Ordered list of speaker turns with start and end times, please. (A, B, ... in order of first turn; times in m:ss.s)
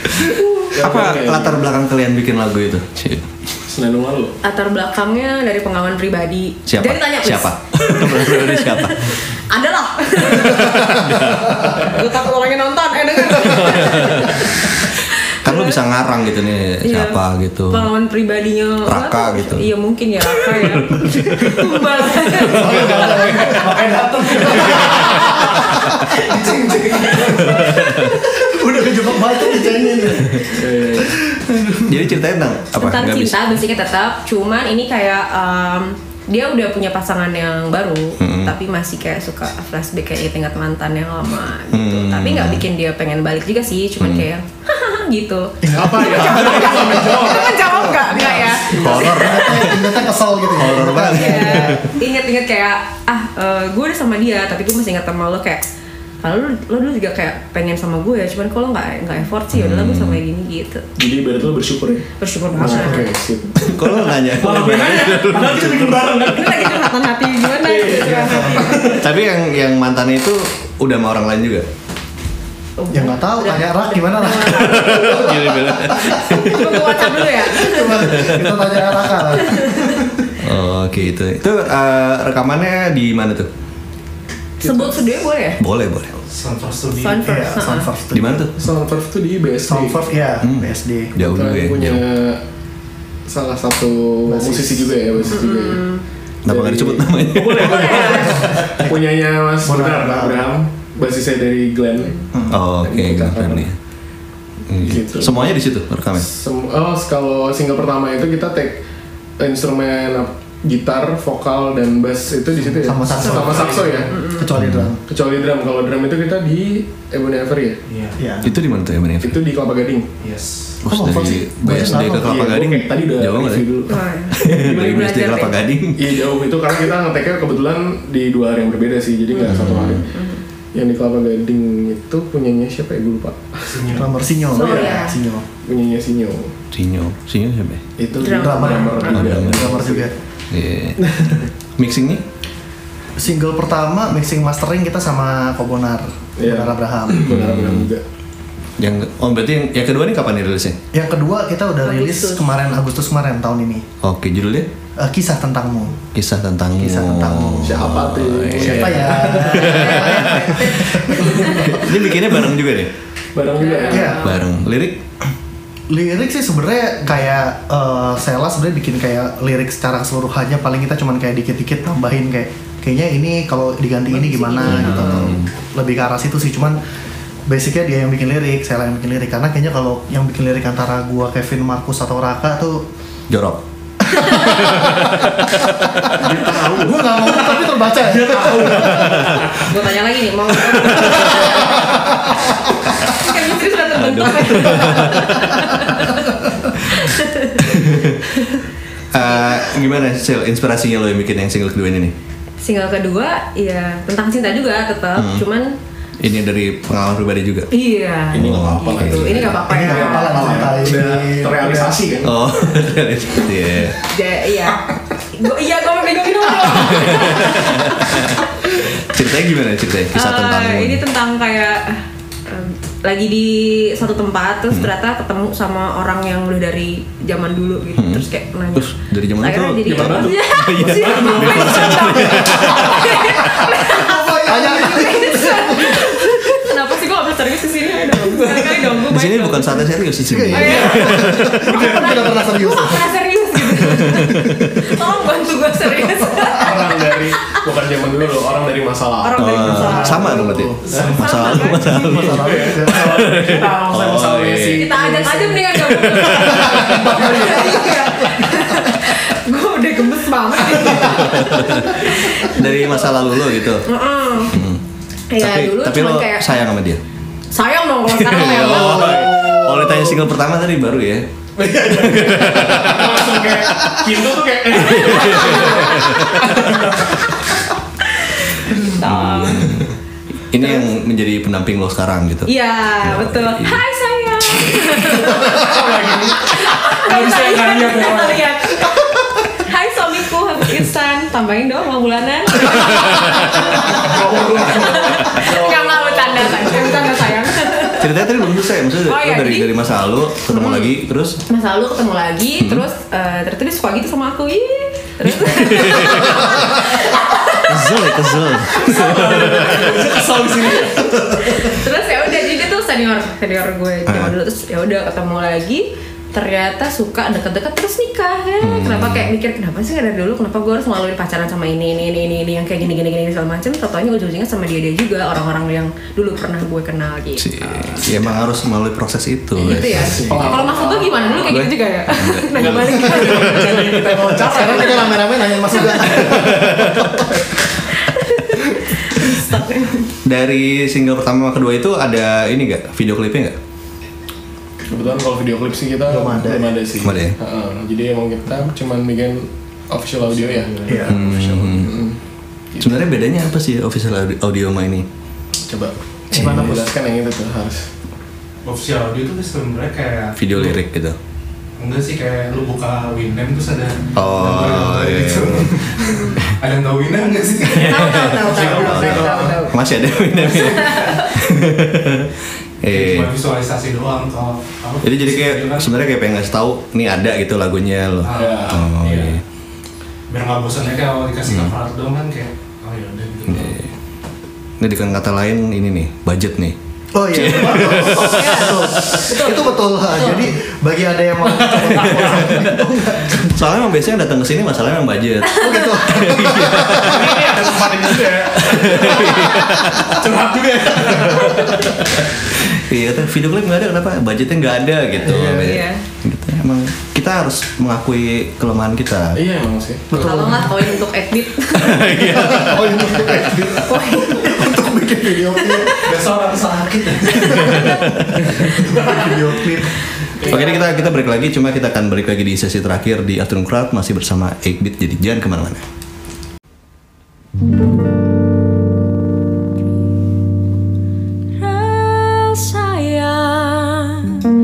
0:00.2-0:01.6 A
0:00.8-0:03.3 B
0:03.6-0:04.4 A
0:04.4-0:11.0 C
0:06.7-0:09.3 B
0:10.3-0:11.8 B
0:11.7-0:15.8 C
0:13.4-0:14.6 B
0:15.4-0:17.9 B
0:16.8-0:22.7 C
0:18.8-0:19.7 B
0:20.5-0:21.6 B
0:22.4-0:23.4 B
0:22.5-0:32.0 D
0:22.6-0:25.7 A
0:24.7-0:25.3 B
0:26.3-0:27.6 A
0:27.4-0:28.2 B
0:30.5-0:31.1 A
0:31.7-0:33.5 B
0:32.7-0:49.7 C
0:38.2-0:38.5 B
0:41.7-0:42.6 B
0:44.0-0:44.2 B
0:45.6-0:52.0 D
0:45.7-0:49.0 A
0:48.8-0:51.9 B
0:51.1-0:55.6 C
0:56.2-1:00.8 C
0:59.5-1:00.2 B
1:01.0-1:06.9 A
1:02.1-1:03.1 C
1:03.6-1:06.2 B
1:06.2-1:09.0 C
1:07.5-1:09.1 A
1:08.0-1:08.7 D
1:08.8-1:11.6 B
1:12.8-1:15.6 C
1:12.9-1:16.5 D
1:14.5-1:17.2 B
1:16.1-1:18.0 C
1:17.4-1:20.3 D
1:17.8-1:19.0 B
1:19.4-1:20.0 C
1:20.4-1:23.5 B
1:24.6-1:25.6 C
1:24.6-1:24.9 A
1:25.6-1:26.2 B
1:26.3-1:27.3 E
1:27.0-1:27.9 C
1:27.2-1:28.4 D
1:28.1-1:28.5 B
1:28.6-1:30.0 A
1:29.6-1:31.1 D
1:30.4-1:32.0 B
1:31.2-1:32.4 A
1:33.3-1:35.9 A
1:34.3-1:35.4 D
1:35.3-1:36.0 C
1:36.4-1:38.2 B
1:36.4-1:42.2 A
1:37.6-1:38.5 C
1:38.1-1:40.5 D
1:42.3-1:42.6 D
1:42.5-1:43.8 B
1:42.8-1:43.7 A
1:44.7-1:46.3 B
1:44.8-1:45.6 A
1:46.2-1:48.8 A
1:49.4-1:54.1 A
1:52.8-1:55.0 D
1:53.2-1:54.1 E
1:54.1-1:54.5 C
1:54.5-1:54.9 B
1:55.1-1:57.8 A
1:57.9-1:58.2 E
1:58.2-1:58.6 D
1:58.4-1:59.4 B
1:59.2-2:00.1 A
2:00.2-2:00.8 E
2:00.8-2:03.7 B
2:00.8-2:02.4 D
2:01.7-2:05.0 A
2:03.9-2:05.6 C
2:04.3-2:06.2 B
2:06.0-2:10.1 A
2:09.4-2:10.4 C
2:09.4-2:10.0 B
2:10.7-2:14.0 A
2:13.6-2:14.1 E
2:13.9-2:15.4 D
2:14.5-2:15.2 C
2:14.5-2:15.0 A
2:15.6-2:16.5 A
2:16.7-2:17.8 B
2:18.0-2:20.1 A
2:18.2-2:19.2 C
2:18.2-2:20.1 D
2:19.1-2:19.8 B
2:20.5-2:21.2 B
2:21.1-2:21.4 A
2:21.8-2:22.2 B
2:23.2-2:27.4 D
2:26.4-2:28.0 A
2:27.3-2:27.9 B
2:28.8-2:30.8 B
2:30.9-2:33.8 D
2:31.8-2:32.5 C
2:34.0-2:34.7 B
2:35.0-2:36.0 D
2:36.1-2:41.0 B
2:36.8-2:37.9 D
2:37.6-2:40.0 A
2:38.6-2:42.3 D
2:39.6-2:41.7 C
2:41.1-2:41.9 A
2:41.6-2:42.9 B
2:43.3-2:44.2 A
2:43.5-2:44.4 C
2:43.9-2:44.3 D
2:44.2-2:45.0 B
2:45.9-2:56.8 D
2:54.1-2:55.4 C
2:54.6-2:55.5 B
2:57.5-3:02.8 D
3:03.3-3:03.6 B
3:04.1-3:05.3 D
3:04.3-3:05.1 B
3:06.0-3:09.3 D
3:06.1-3:09.8 A
3:08.9-3:09.4 B
3:09.6-3:12.4 C
3:10.8-3:11.5 B
3:11.6-3:12.5 D
3:13.0-3:16.4 C
3:13.9-3:16.1 B
3:16.9-3:17.7 C
3:17.6-3:18.4 B
3:18.3-3:18.6 C
3:19.1-3:22.1 B
3:19.2-3:19.8 C
3:22.6-3:25.8 C
3:25.1-3:25.4 B
3:26.2-3:27.7 B
3:27.7-3:30.7 C
3:28.3-3:29.6 B
3:28.3-3:32.4 A
3:29.7-3:32.0 D
3:32.2-3:34.0 B
3:34.0-3:38.1 C
3:36.7-3:41.0 B
3:40.1-4:07.6 C
3:48.0-3:53.6 B
3:49.8-3:53.1 A
3:53.9-3:56.6 D
3:58.2-3:58.8 A
3:59.1-4:02.1 B
4:00.2-4:03.1 D
4:03.7-4:05.0 B
4:06.5-4:10.3 A
4:09.2-4:10.5 C
4:09.4-4:14.9 B
4:09.8-4:10.8 D
4:10.8-4:11.4 E
4:10.9-4:11.3 A
4:11.1-4:12.0 C
4:11.7-4:13.3 D
4:11.9-4:15.8 A
4:14.7-4:24.6 C
4:15.8-4:17.0 B
4:16.3-4:17.3 A
4:16.6-4:19.0 D
4:20.9-4:23.8 B
4:24.5-4:24.8 B
4:25.3-4:26.5 C
4:25.4-4:27.0 B
4:27.5-4:29.5 C
4:28.1-4:31.3 B
4:28.8-4:30.2 A
4:31.6-4:37.6 A
4:31.8-4:33.6 B
4:34.7-4:36.7 B
4:35.4-4:36.3 C
4:38.7-4:39.7 C
4:38.8-4:39.9 B
4:40.5-4:43.8 B
4:40.6-4:40.9 C
4:42.4-4:49.0 C
4:44.6-4:48.9 A
4:49.6-4:58.3 C
4:53.1-4:53.4 B
4:53.5-4:57.3 A
4:58.0-5:01.4 B
4:59.0-4:59.7 C
5:00.5-5:00.9 C
5:01.5-5:09.0 C
5:02.6-5:02.8 B
5:05.2-5:06.9 B
5:07.6-5:10.1 B
5:08.7-5:11.7 A
5:10.5-5:28.1 C
5:14.1-5:14.3 B
5:18.6-5:19.3 B
5:27.4-5:30.7 B
5:29.6-5:31.6 A
5:29.6-5:34.0 C
5:31.4-5:34.3 B
5:32.6-5:35.3 A
5:34.3-5:37.5 D
5:34.6-5:35.1 C
5:35.7-5:36.0 C
5:35.8-5:37.2 B
5:36.1-5:36.5 A
5:37.9-5:40.1 C
5:40.2-5:43.6 B
5:44.8-5:52.2 A
5:46.1-5:46.8 D
5:47.0-5:47.4 B
5:50.5-5:51.0 E
5:50.9-5:51.2 D
5:51.1-5:52.0 B
5:52.7-5:53.1 A
5:52.8-5:55.0 B
5:55.6-5:57.9 A
5:56.3-5:56.9 D
5:58.6-6:00.8 E
6:00.4-6:01.2 B
6:01.8-6:09.6 E
6:04.2-6:06.5 B
6:07.7-6:09.8 C
6:07.7-6:13.3 B
6:08.5-6:09.5 A
6:10.5-6:11.4 C
6:12.9-6:15.9 E
6:15.0-6:19.4 B
6:18.2-6:19.4 E
6:18.3-6:19.3 A
6:20.3-6:23.8 E
6:21.5-6:21.7 B
6:23.5-6:23.9 B
6:24.8-6:26.8 B
6:27.1-6:33.6 D
6:27.3-6:29.3 B
6:28.3-6:30.5 C
6:31.6-6:37.6 B
6:35.5-6:37.4 D
6:37.0-6:42.1 A
6:38.6-6:40.1 B
6:39.8-6:40.1 D
6:42.7-6:49.4 B
6:45.2-6:45.8 D
6:45.6-6:46.0 C
6:49.4-6:50.6 A
6:50.1-6:50.7 D
6:50.1-6:52.2 C
6:51.7-6:53.5 B
6:52.2-6:56.3 D
6:53.8-6:54.7 C
6:55.5-6:56.0 C
6:56.0-6:57.4 E
6:57.0-7:00.0 D
6:57.5-6:58.2 B
6:58.8-6:59.2 E
7:00.4-7:01.1 A
7:00.5-7:05.8 B
7:11.5-7:14.4 F